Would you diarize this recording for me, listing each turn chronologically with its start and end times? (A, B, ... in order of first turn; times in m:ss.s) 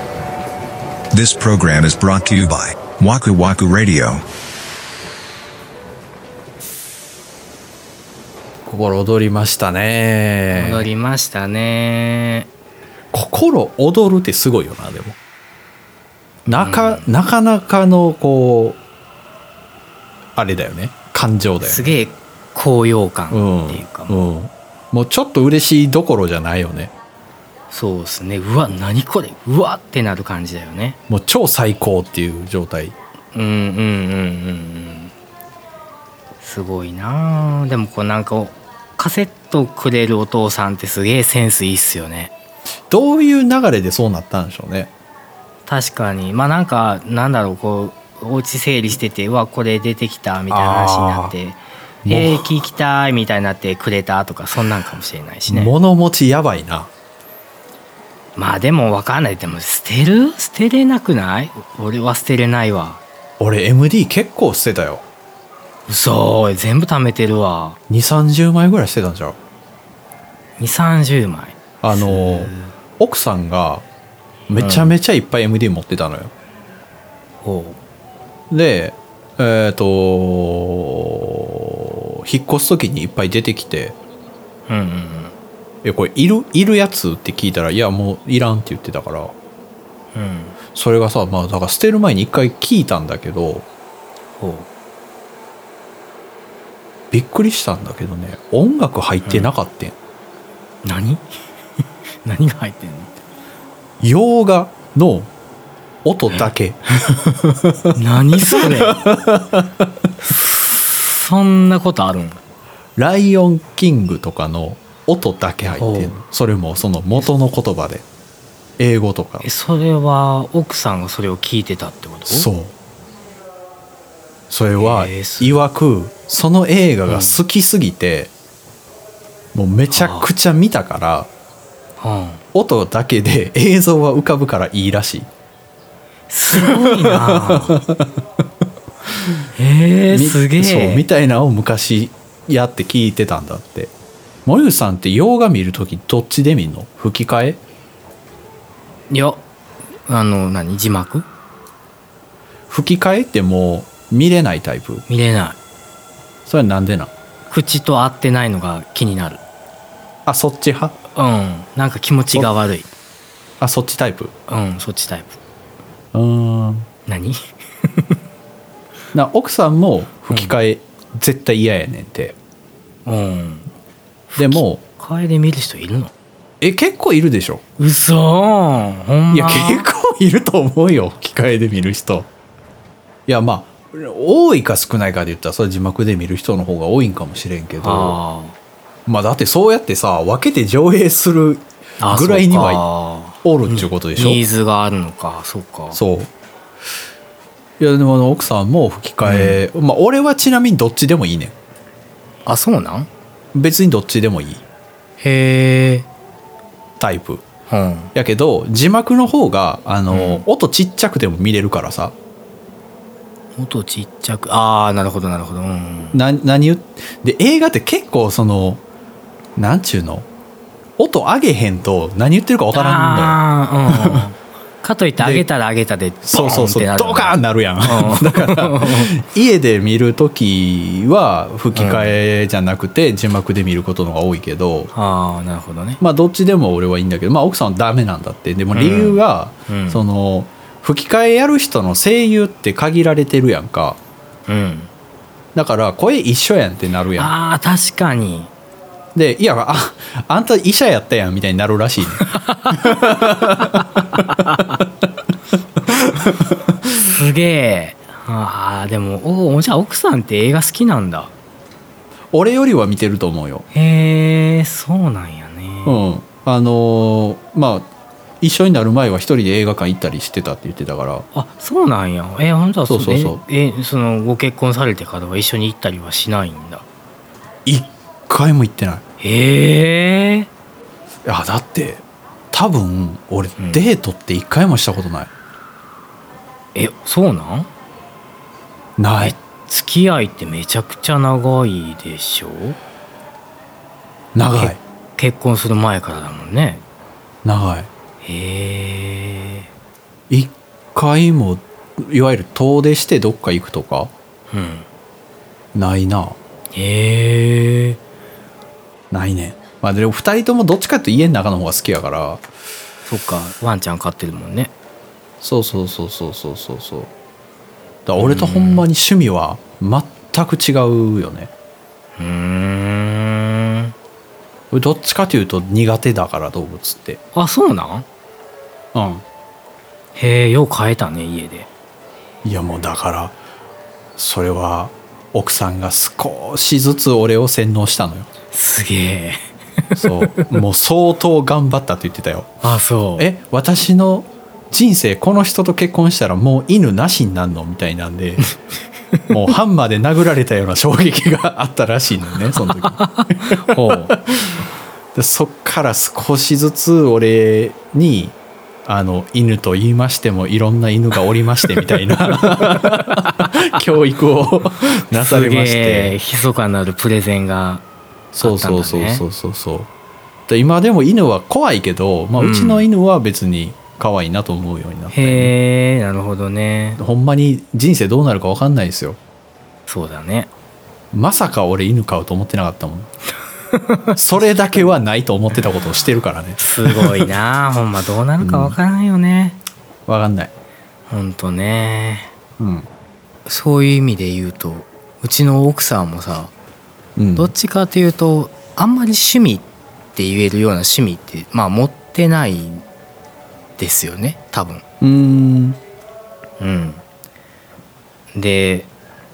0:01.1-0:04.2 A
0:08.6-0:10.9 B
0:10.5-0:12.5 C
0:13.1-0:15.2 B
0:16.5-0:18.8 B
0:16.5-0:17.1 C
0:20.4-0:21.9 B
0:21.6-0:24.2 C
0:23.3-0:26.9 B
0:27.7-0:31.0 C
0:31.1-0:32.9 B
0:33.3-0:35.1 C
0:36.4-0:42.3 C
0:42.9-0:44.9 B
0:45.7-0:55.7 C
0:50.5-0:51.3 B
0:52.0-0:52.4 B
0:55.5-0:56.9 B
0:58.4-1:03.0 C
1:03.4-1:05.0 B
1:05.9-1:07.8 C
1:07.9-1:09.4 B
1:10.6-1:12.7 C
1:11.8-1:13.8 B
1:14.5-1:16.3 B
1:14.6-1:15.0 C
1:17.4-1:17.8 C
1:18.5-1:24.0 B
1:24.7-1:25.3 C
1:25.8-1:29.3 B
1:30.1-1:30.5 C
1:30.7-1:33.6 B
1:34.4-1:34.7 C
1:37.1-1:40.0 B
1:40.8-1:41.3 C
1:42.2-1:43.1 C
1:44.0-1:45.3 B
1:46.0-1:48.0 B
1:47.9-1:49.0 C
1:48.5-1:49.7 B
1:50.2-1:52.4 C
1:53.0-1:58.0 B
1:55.7-1:56.2 C
1:58.8-1:59.4 B
1:59.4-2:02.5 C
2:02.3-2:02.7 B
2:04.5-2:08.3 B
2:04.8-2:05.6 C
2:07.1-2:07.4 C
2:09.5-2:11.3 B
2:09.9-2:10.3 C
2:12.0-2:12.4 C
2:12.5-2:15.3 B
2:16.3-2:17.8 C
2:16.5-2:18.2 B
2:19.5-2:21.0 C
2:20.1-2:23.9 B
2:24.4-2:27.6 B
2:29.1-2:29.4 C
2:30.1-2:31.2 C
2:32.7-2:35.0 B
2:35.1-2:35.6 C
2:36.4-2:37.1 B
2:37.5-2:39.4 C
2:40.2-2:41.0 B
2:41.1-2:42.9 C
2:43.6-2:44.3 B
2:44.5-2:45.4 C
2:46.1-2:46.9 B
2:47.1-2:48.1 C
2:49.1-2:52.4 B
2:53.0-2:53.7 C
2:54.3-2:56.1 C
2:54.4-2:54.8 B
2:56.6-2:57.6 B
2:57.8-2:59.9 C
2:59.3-3:02.3 B
3:03.3-3:08.2 B
3:07.8-3:08.6 C
3:09.0-3:12.8 B
3:12.0-3:16.0 C
3:13.4-3:14.4 B
3:15.9-3:16.3 B
3:17.8-3:21.5 B
3:19.2-3:19.6 C
3:22.4-3:23.1 C
3:23.5-3:24.6 B
3:25.2-3:26.1 C
3:27.0-3:27.4 B
3:27.7-3:28.1 C
3:28.1-3:32.1 B
3:30.1-3:30.4 C
3:33.6-3:36.2 C
3:36.1-3:38.8 B
3:39.6-3:40.3 B
3:41.0-3:44.2 B
3:42.7-3:49.1 C
3:45.2-3:45.4 B
3:46.2-3:54.9 B
3:51.7-3:52.2 C
3:54.9-3:56.0 C
3:56.0-4:04.0 B
3:58.7-4:00.0 C
4:04.5-4:04.9 C
4:05.5-4:07.3 B
4:07.2-4:08.5 C
4:09.1-4:14.2 B
4:12.2-4:14.8 C
4:15.9-4:16.6 B
4:17.0-4:21.3 C
4:22.3-4:23.6 B
4:23.7-4:26.0 C
4:25.8-4:27.9 B
4:28.4-4:31.2 B
4:31.3-4:36.8 C
4:32.9-4:33.4 B
4:37.6-4:39.0 B
4:39.2-4:40.5 C
4:41.2-4:45.3 B
4:43.6-4:43.8 C
4:46.7-4:47.7 C
4:49.0-4:49.3 B
4:49.2-4:52.8 C
4:54.3-4:54.8 B
4:54.5-4:56.8 C
4:57.4-4:57.9 B
4:58.2-4:59.7 C
5:00.3-5:04.1 B
5:04.5-5:04.8 C
5:05.7-5:06.4 B
5:06.7-5:08.0 C
5:09.1-5:12.4 B
5:13.1-5:14.7 C
5:15.4-5:17.1 B
5:18.0-5:21.5 B
5:18.2-5:18.8 C
5:22.2-5:23.9 C
5:24.7-5:27.2 B
5:27.3-5:28.0 C
5:28.9-5:29.2 B
5:30.2-5:31.7 C
5:32.4-5:33.3 B
5:34.2-5:38.3 B
5:38.5-5:40.6 C
5:39.9-5:42.6 B
5:42.6-5:43.3 C
5:43.2-5:48.5 B
5:49.3-5:54.6 B
5:52.6-5:54.2 C
5:55.1-6:06.1 B
6:01.9-6:03.6 C
6:05.2-6:07.8 C
6:08.3-6:09.9 B
6:08.4-6:09.2 C
6:10.5-6:15.5 B
6:12.4-6:12.9 C
6:15.1-6:17.0 C
6:17.0-6:19.2 B
6:19.9-6:20.5 C
6:21.1-6:23.1 B
6:23.7-6:24.2 C
6:24.2-6:27.3 B
6:26.6-6:29.6 C
6:28.4-6:28.8 B
6:30.1-6:30.5 B
6:31.1-6:32.3 C
6:32.6-6:32.9 B
6:33.4-6:36.5 C
6:37.2-6:37.5 B
6:37.4-6:42.8 C
6:43.8-6:44.8 C
6:45.0-6:45.8 B
6:46.6-6:47.0 C
6:48.3-6:48.9 C